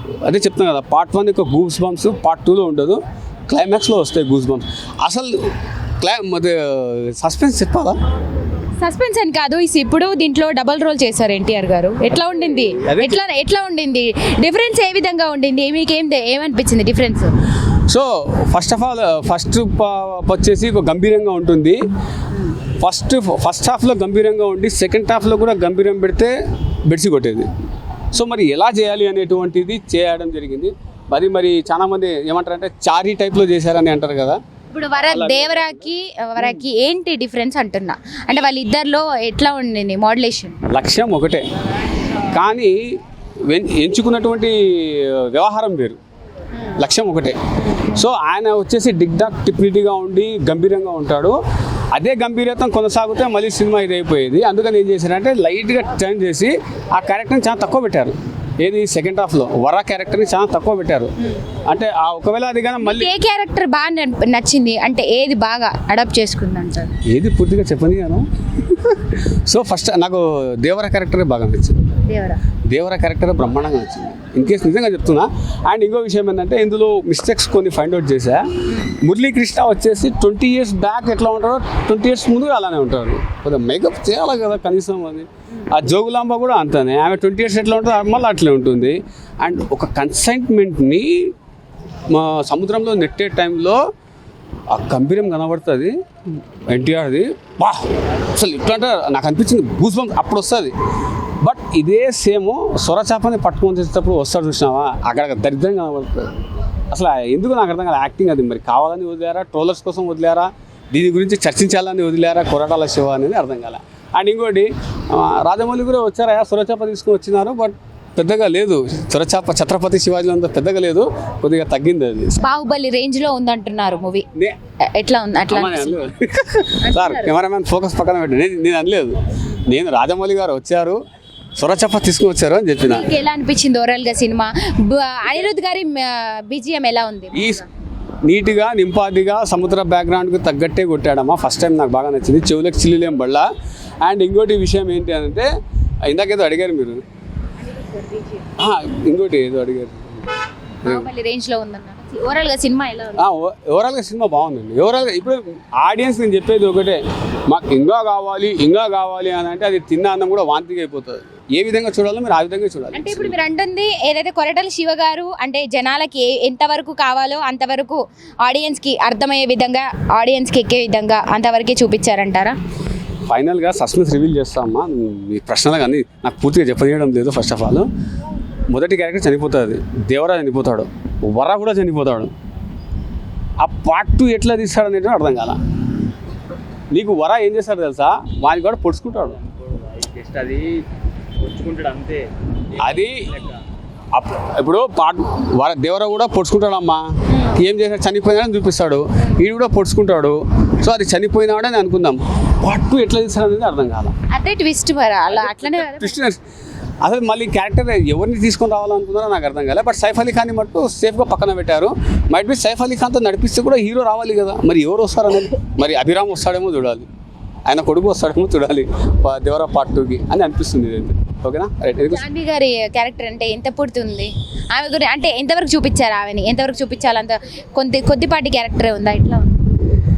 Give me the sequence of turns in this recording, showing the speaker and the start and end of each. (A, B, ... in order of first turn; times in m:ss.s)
0:00.2-0:05.3 A
0:06.0-0:08.0 A
0:08.8-0:17.3 B
0:12.8-0:13.2 A
0:17.9-0:21.8 A
0:22.8-0:26.3 A
0:26.8-0:27.5 A
0:28.1-0:34.4 A
0:34.7-0:40.6 B
0:35.1-0:35.8 A
0:40.7-0:41.4 A
0:42.3-0:42.8 A
0:43.5-0:46.0 A
0:46.8-0:51.4 A
0:51.9-1:01.1 A
1:01.7-1:03.1 A
1:02.8-1:06.9 B
1:07.1-1:11.9 A
1:12.0-1:12.4 B
1:12.7-1:31.3 A
1:32.1-1:33.8 A
1:34.7-1:35.9 A
1:36.7-1:40.7 A
1:41.4-1:46.3 A
1:46.9-2:02.4 A
2:02.4-2:04.2 B
2:04.9-2:06.0 B
2:05.5-2:09.2 A
2:06.8-2:07.3 B
2:09.7-2:11.0 A
2:11.6-2:13.1 A
2:12.8-2:17.6 B
2:17.3-2:17.6 A
2:18.2-2:23.5 A
2:24.0-2:25.5 A
2:26.0-2:27.0 A
2:27.6-2:28.5 B
2:28.6-2:30.3 A
2:30.8-2:33.2 B
2:33.2-2:43.3 A
2:42.9-2:52.6 B
2:53.3-2:57.9 A
2:58.7-3:02.3 A
3:03.6-3:05.6 A
3:06.9-3:09.4 A
3:09.7-3:10.8 C
3:11.4-3:12.3 C
3:12.8-3:13.3 A
3:12.8-3:13.4 C
3:14.1-3:24.1 A
3:24.3-3:26.2 B
3:25.3-3:26.4 A
3:27.0-3:37.0 A
3:37.7-3:42.2 A
3:42.1-3:49.6 B